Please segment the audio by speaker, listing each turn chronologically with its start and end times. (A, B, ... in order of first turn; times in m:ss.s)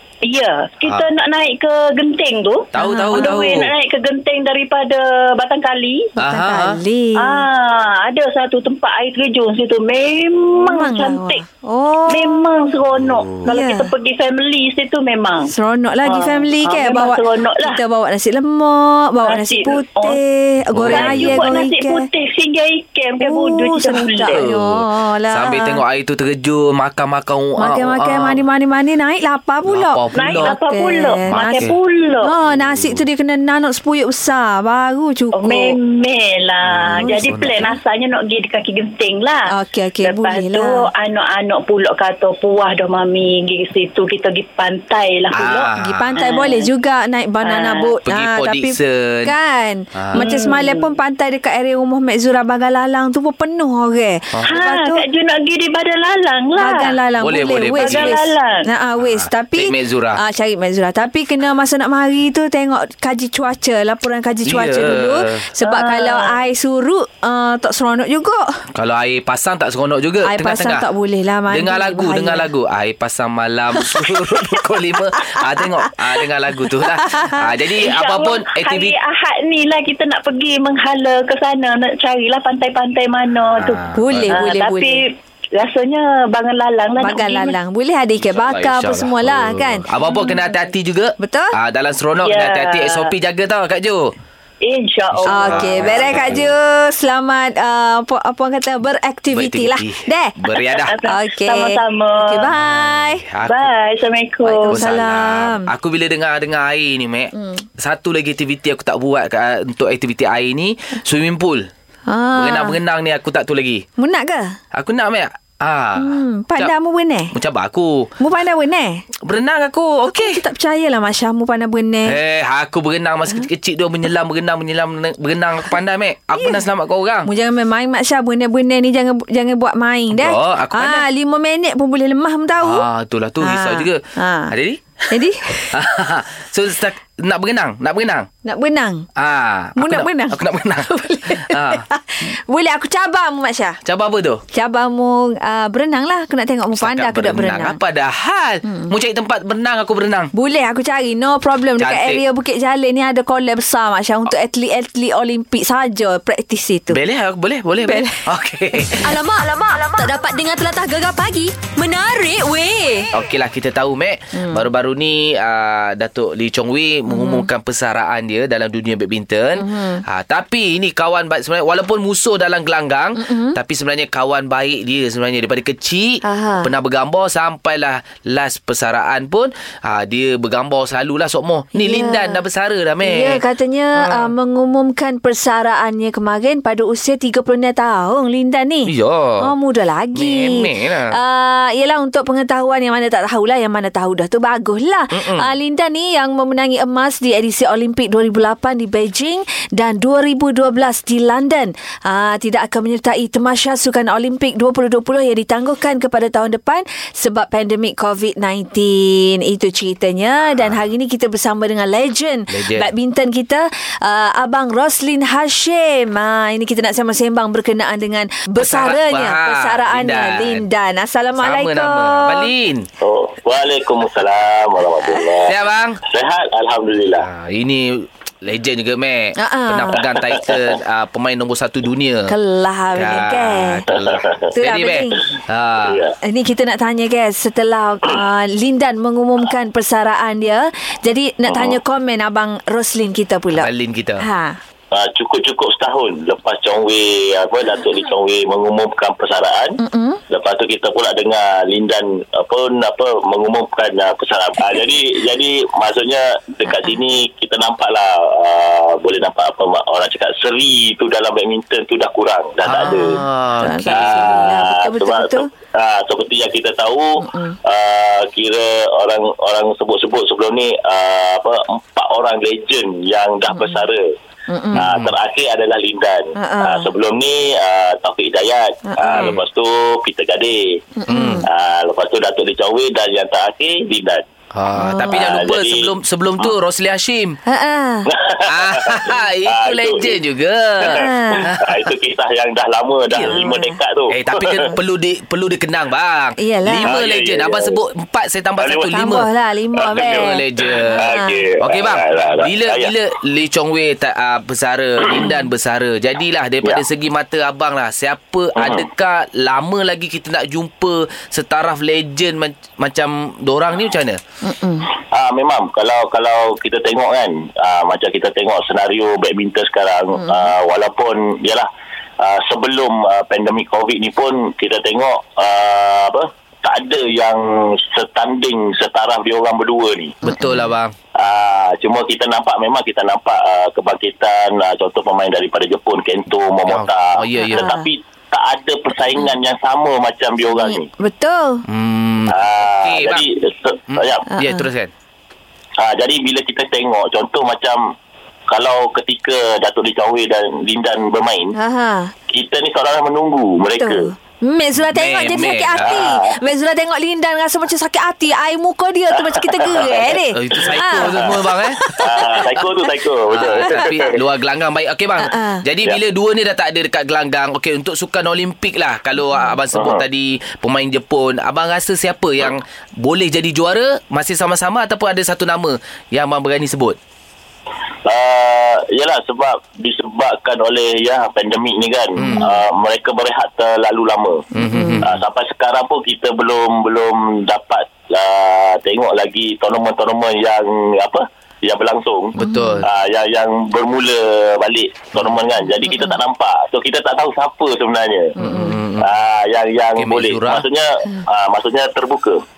0:00.2-0:06.1 A
0:02.7-0:03.7 B
0:02.8-0:03.5 C
0:06.2-0:07.4 C
0:06.2-0:06.8 B
0:07.2-0:11.4 A
0:10.7-0:12.5 C
0:12.1-0:15.5 A
0:13.0-0:13.5 B
0:13.4-0:13.9 C
0:15.5-0:22.1 C
0:16.0-0:17.8 A
0:19.2-0:20.2 A
0:20.7-0:21.5 B
0:20.8-0:24.4 A
0:23.2-0:25.8 C
0:24.3-0:28.4 B
0:27.6-0:31.7 C
0:29.7-0:30.5 B
0:30.1-0:32.3 A
0:31.2-0:31.8 B
0:32.2-0:35.8 C
0:32.4-0:33.0 B
0:35.4-0:39.5 A
0:36.6-0:37.7 B
0:37.0-0:37.7 C
0:39.5-0:40.9 C
0:40.0-0:46.7 A
0:45.3-0:46.2 B
0:45.8-0:55.0 C
0:47.4-0:47.9 A
0:48.0-0:49.3 B
0:49.9-0:50.2 B
0:50.1-0:50.9 A
0:54.4-0:57.0 A
0:56.6-1:08.6 C
0:57.2-0:58.1 B
0:57.8-0:58.6 A
0:59.0-1:00.2 B
1:04.4-1:05.4 B
1:05.6-1:06.3 A
1:08.8-1:10.9 B
1:10.2-1:12.5 C
1:11.5-1:18.9 B
1:17.0-1:17.4 C
1:17.8-1:27.6 A
1:23.4-1:24.4 B
1:23.9-1:25.0 C
1:27.0-1:29.9 C
1:28.2-1:34.1 B
1:31.2-1:31.5 C
1:32.2-1:33.1 A
1:34.6-1:36.2 A
1:35.1-1:36.5 B
1:35.3-1:40.4 C
1:39.3-1:41.0 B
1:40.7-1:42.5 A
1:41.0-1:43.2 C
1:42.5-1:43.7 B
1:43.5-1:44.9 A
1:44.4-1:45.7 C
1:44.6-1:51.7 B
1:47.3-1:47.6 C
1:52.1-1:52.8 C
1:52.4-1:53.8 B
1:54.0-1:54.6 C
1:54.7-1:56.7 B
1:56.0-1:57.3 C
1:57.3-1:58.1 B
1:58.2-1:59.0 C
1:59.2-2:00.4 B
2:00.1-2:02.2 C
2:02.0-2:07.3 B
2:06.4-2:06.6 C
2:07.2-2:12.8 C
2:10.1-2:11.0 B
2:12.6-2:14.9 B
2:13.4-2:14.5 C
2:15.1-2:15.7 C
2:15.7-2:18.3 B
2:18.4-2:19.1 C
2:19.2-2:21.8 B
2:19.8-2:23.8 C
2:23.8-2:24.4 B
2:24.5-2:27.8 C
2:26.8-2:30.3 B
2:28.6-2:28.9 C
2:30.3-2:37.0 C
2:31.8-2:32.2 B
2:36.9-2:39.2 B
2:37.8-2:38.2 C
2:39.0-2:43.1 D
2:43.1-3:03.4 B
2:44.3-2:44.6 C
2:47.1-2:47.5 C
2:49.6-2:50.0 C
2:53.2-2:53.6 C
2:56.2-2:56.7 C
3:01.7-3:02.4 C
3:03.0-3:42.5 C
3:04.0-3:04.3 B
3:08.9-3:09.5 B
3:10.1-3:11.2 B
3:15.1-3:15.5 B
3:32.5-3:32.9 B
3:38.6-3:40.6 B
3:41.4-3:42.9 B
3:43.0-3:45.5 E
3:45.4-3:46.0 B
3:46.0-3:47.2 E
3:47.1-3:52.3 B
3:49.4-3:50.0 C
3:52.3-3:53.8 C
3:52.9-3:56.0 B
3:53.9-3:54.4 E
3:54.5-3:55.2 C
3:55.8-3:56.1 E
3:56.2-4:03.7 C
4:01.5-4:01.8 E
4:03.5-4:04.2 B
4:04.2-4:04.6 C
4:04.9-4:09.8 E
4:09.8-4:10.2 C
4:10.3-4:23.2 E
4:22.6-4:24.5 B
4:23.6-4:25.5 C
4:23.9-4:34.1 E
4:27.2-4:27.6 C
4:33.5-4:33.8 C
4:34.5-4:34.8 C
4:34.8-4:35.1 B
4:34.8-4:40.8 E
4:36.4-4:36.9 C
4:38.9-4:39.4 C
4:41.0-4:41.4 C
4:41.1-4:41.4 B
4:41.4-4:44.2 E
4:44.5-4:47.4 B
4:44.8-4:45.3 C
4:45.1-4:45.9 E
4:47.4-4:48.1 C
4:48.1-4:50.2 E
4:48.4-4:51.9 B
4:50.8-4:51.5 C
4:51.4-4:54.7 E
4:53.1-4:53.4 B
4:53.2-4:53.8 C
4:54.1-4:59.3 B
4:56.4-4:57.0 C
4:56.8-4:57.8 E
4:58.6-4:58.9 E
4:58.9-5:01.4 C
4:59.8-5:00.2 E
5:00.0-5:14.2 B
5:00.8-5:02.9 E
5:08.6-5:08.8 E
5:14.4-5:14.9 C
5:15.1-5:21.7 E
5:20.1-5:20.5 C
5:22.2-5:30.2 E
5:30.2-5:30.9 B
5:30.2-5:30.7 C
5:31.2-5:40.9 E
5:36.7-5:37.6 B
5:37.4-5:37.9 C
5:40.5-5:41.6 C
5:41.7-5:43.2 B
5:42.3-5:44.2 E
5:43.9-5:44.9 B
5:44.3-5:44.7 C
5:45.8-5:47.9 E
5:48.5-5:51.5 E
5:51.5-5:52.1 C
5:52.3-5:54.1 E
5:53.8-6:02.4 C
5:54.8-5:56.0 B
5:55.8-5:56.4 E
5:59.3-6:00.1 E
6:00.3-6:02.6 B
6:00.9-6:01.4 E
6:02.0-6:04.2 E
6:03.3-6:17.0 B
6:05.2-6:05.6 C
6:09.3-6:09.6 C
6:09.7-6:10.0 E
6:18.0-6:24.5 E
6:22.2-6:22.5 B
6:24.5-6:25.0 C
6:24.6-6:25.2 B
6:25.0-6:38.3 E
6:32.4-6:32.9 B
6:32.4-6:32.8 C
6:35.9-6:36.2 C
6:38.4-6:38.8 C
6:38.4-6:39.1 B
6:39.0-6:42.4 E
6:40.0-6:40.6 B